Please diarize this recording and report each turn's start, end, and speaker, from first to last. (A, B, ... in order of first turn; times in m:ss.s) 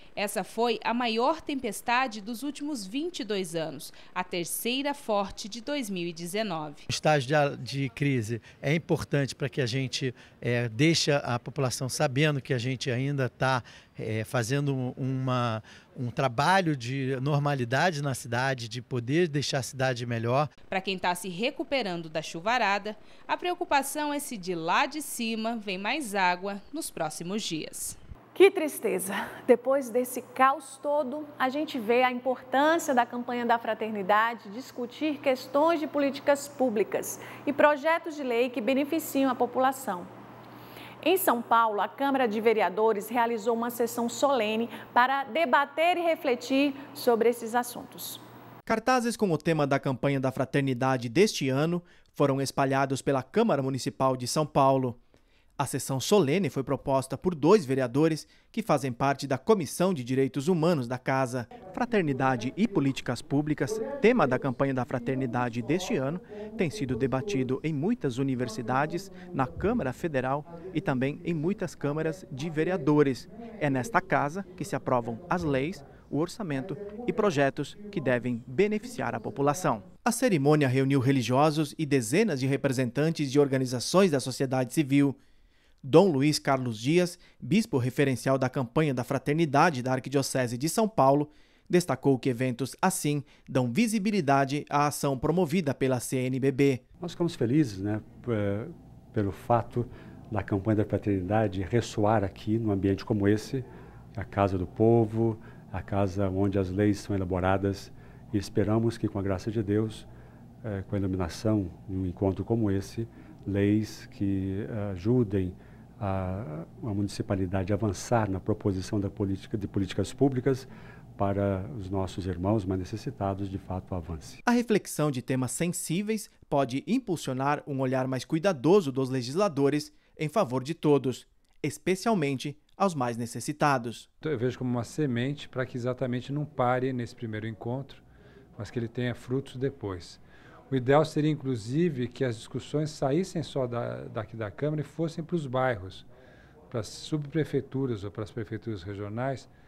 0:00.2-0:06.8 A
0:06.9-0:20.5 B
0:20.7-0:28.0 A
0:28.4-0:40.1 C
0:41.0-0:48.2 C
0:48.7-0:55.0 D
0:55.6-1:25.2 D
1:25.8-1:36.8 D
1:37.0-1:50.1 E
1:50.6-2:04.4 E
2:04.4-2:14.1 D
2:14.2-2:18.0 F
2:18.6-2:26.1 F
2:26.7-2:29.5 F